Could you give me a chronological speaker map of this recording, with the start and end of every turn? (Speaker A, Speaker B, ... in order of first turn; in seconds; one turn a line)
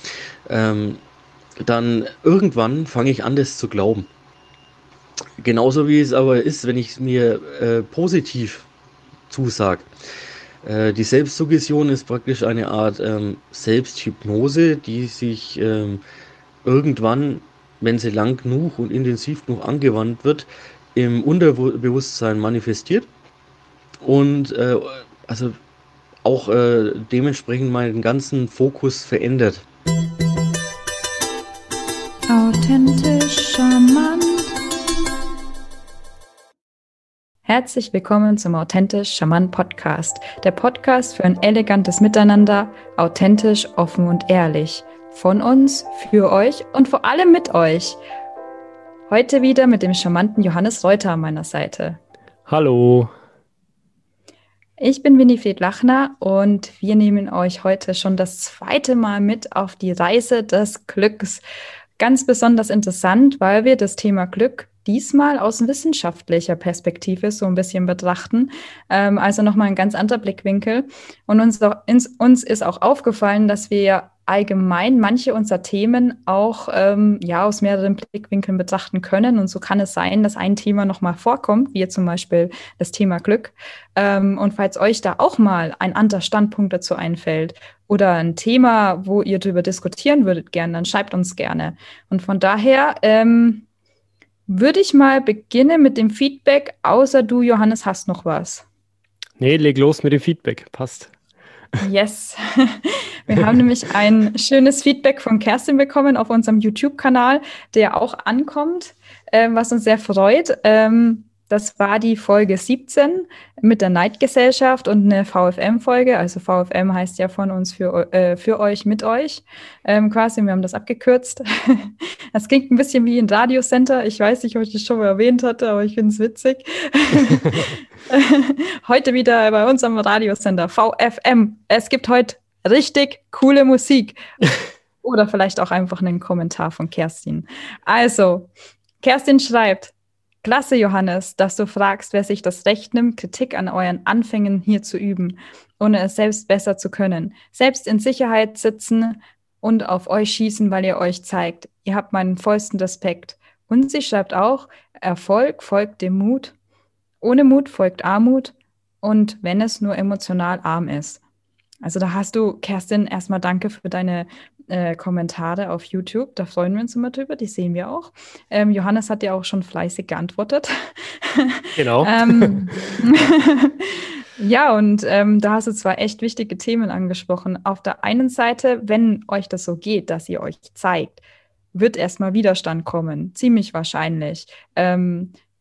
Speaker A: 0.5-1.0
Speaker A: 1.6-4.1
Speaker A: 5.4-8.7
Speaker A: 9.3-9.9
Speaker A: 10.6-16.0
Speaker A: 16.6-23.1
Speaker A: 24.0-25.6
Speaker A: 26.2-29.6
Speaker B: 32.3-34.6
Speaker B: 37.5-48.0
Speaker B: 49.1-52.0
Speaker C: 52.5-53.1
Speaker B: 54.8-61.4
Speaker B: 62.0-93.7
Speaker B: 94.5-98.6
Speaker C: 99.4-101.1
Speaker B: 101.8-134.2
Speaker B: 135.0-138.5
Speaker B: 139.0-156.5
Speaker B: 157.2-161.2
Speaker B: 161.8-181.2
Speaker C: 171.8-173.0
Speaker B: 181.7-185.3